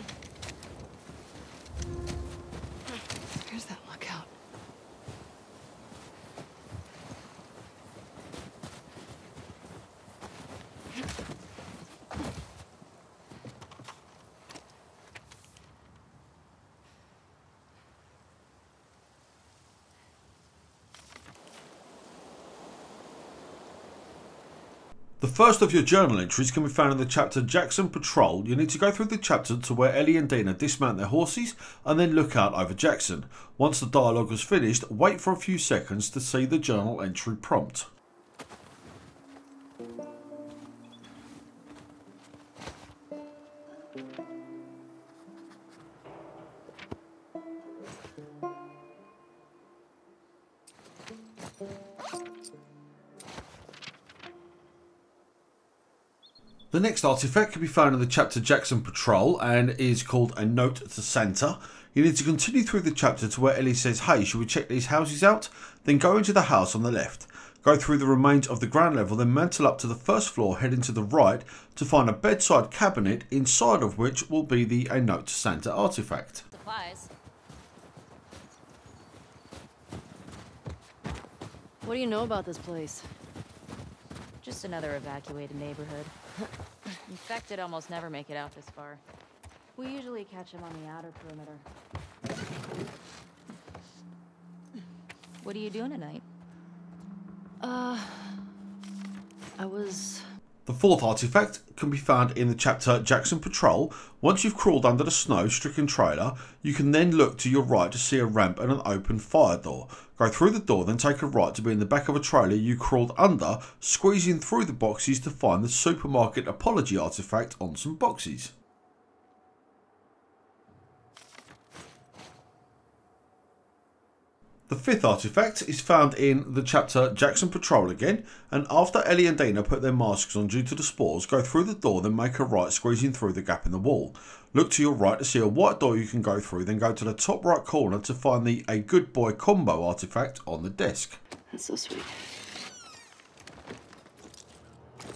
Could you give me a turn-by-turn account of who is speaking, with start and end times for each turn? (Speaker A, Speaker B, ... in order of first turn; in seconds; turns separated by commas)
Speaker A: 3.5-4.3, Speaker B: 25.2-37.9, Speaker B: 56.7-76.5, Speaker C: 76.5-77.1, Speaker A: 81.8-83.1, Speaker C: 84.4-86.1, Speaker C: 87.1-89.0, Speaker C: 89.8-91.7, Speaker C: 95.4-96.2, Speaker A: 97.6-98.5, Speaker A: 99.6-100.2, Speaker B: 100.7-118.5, Speaker B: 124.7-141.2, Speaker A: 141.5-142.2